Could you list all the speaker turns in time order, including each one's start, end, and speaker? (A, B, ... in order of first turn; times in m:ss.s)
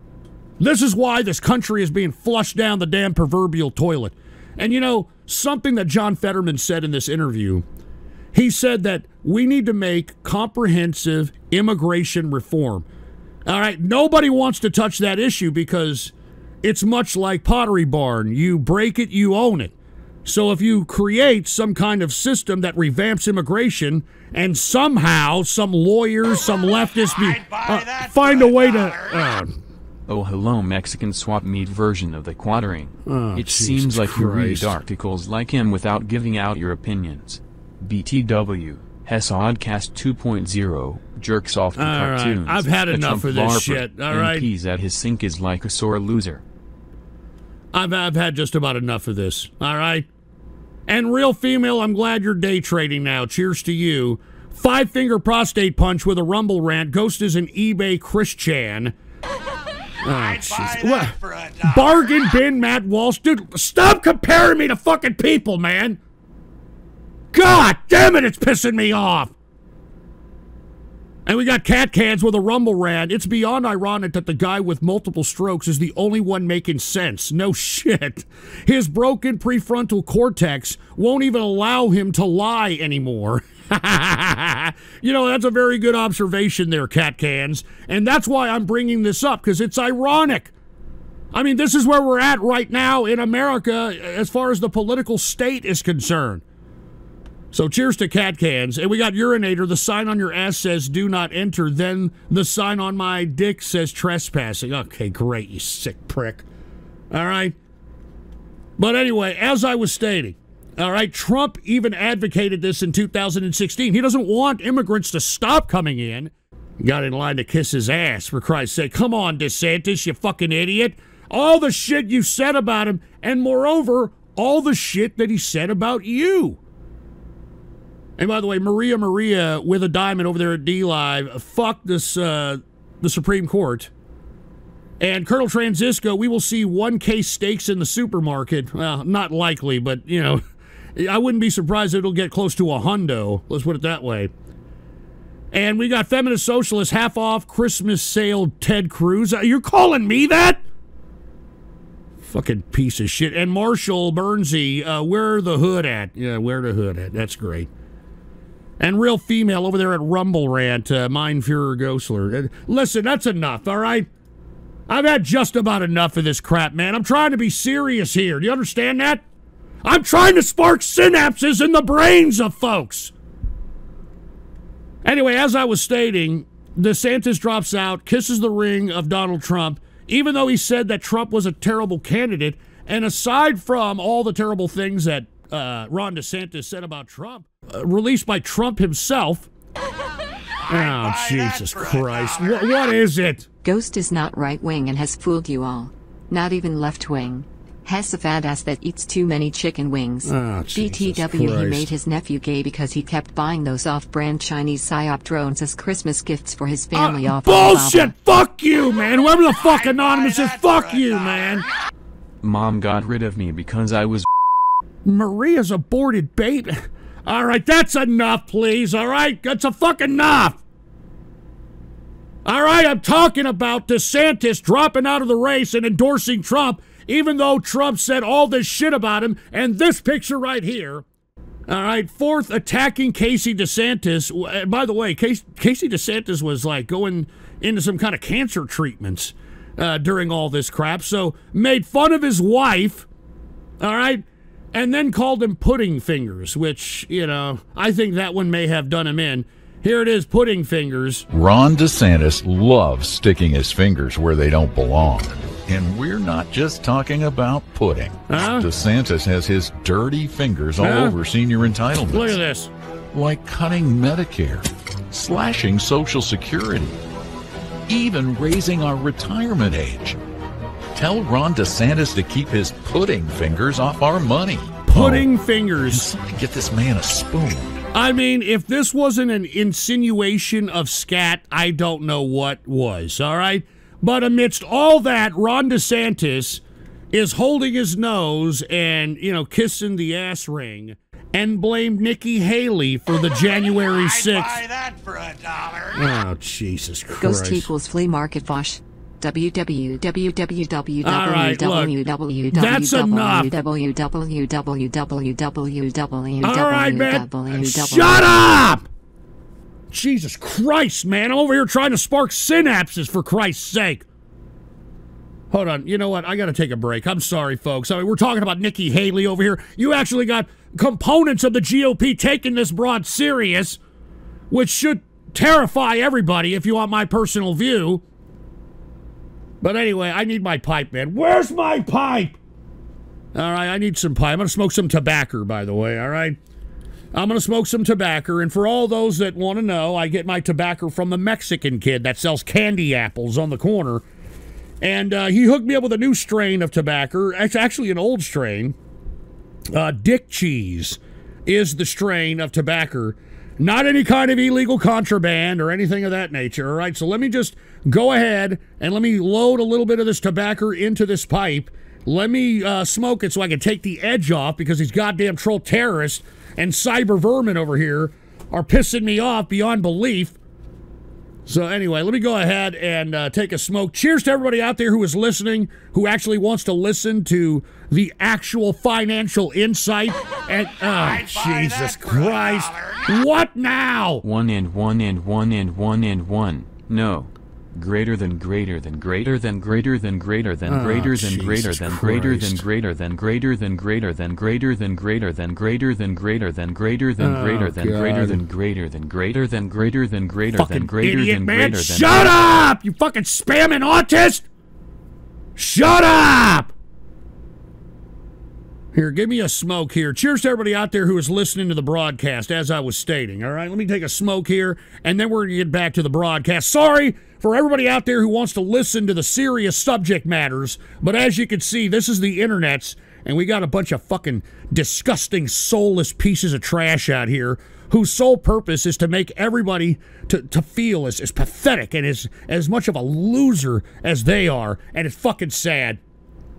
0:00.6-0:07.6 A
0:08.3-0:12.8 A
0:13.4-0:19.7 A
0:20.2-0:29.5 A
0:27.0-0:29.2 B
0:30.1-0:46.4 C
0:33.0-0:34.7 A
0:41.8-0:44.4 A
0:47.7-0:50.0 A
0:50.9-0:58.9 A
1:00.0-1:01.1 A
1:00.1-1:02.1 B
1:01.6-1:06.0 A
1:07.3-1:09.3 A
1:11.2-1:30.5 A
1:31.3-1:36.4 A
1:37.5-1:46.4 A
1:47.1-1:47.5 A
1:48.8-2:06.6 A
2:08.2-2:13.9 A
2:15.0-2:20.4 A
2:21.0-2:24.3 A
2:25.5-2:30.6 A
2:32.2-2:37.7 A
2:38.8-2:44.1 A
2:44.9-2:49.2 A
2:49.8-2:53.1 A
2:55.0-3:09.5 A
3:10.6-3:12.7 B
3:10.7-3:13.4 A
3:13.6-3:28.1 D
3:20.2-3:21.9 A
3:26.9-3:31.6 A
3:29.6-3:31.6 B
3:32.4-3:34.2 C
3:35.0-3:40.6 A
3:42.4-3:51.0 A
3:51.7-4:03.0 A
4:03.8-4:04.2 A
4:04.7-4:11.2 A
4:11.3-4:22.4 E
4:18.3-4:18.7 A
4:20.8-4:21.1 A
4:22.1-4:22.7 A
4:23.1-4:27.0 E
4:27.9-4:30.2 E
4:30.9-4:35.3 E
4:34.9-4:36.1 A
4:35.9-4:37.8 E
4:37.9-4:54.6 A
4:53.6-4:56.0 B
4:56.0-4:57.7 A
4:57.2-5:08.4 D
5:01.0-5:01.9 A
5:02.5-5:03.5 A
5:06.4-5:08.8 A
5:09.9-5:14.0 A
5:15.5-5:23.8 A
5:24.5-5:28.0 A
5:29.6-5:32.3 A
5:33.3-5:36.4 A
5:37.1-5:44.0 A
5:44.8-5:48.7 A
5:49.7-6:10.3 A
6:11.4-6:24.2 A
6:20.9-6:23.1 B
6:24.2-6:42.4 C
6:30.7-6:32.6 A
6:37.2-6:38.4 A
6:40.6-6:44.4 A
6:45.6-6:46.7 A
6:48.9-7:16.0 A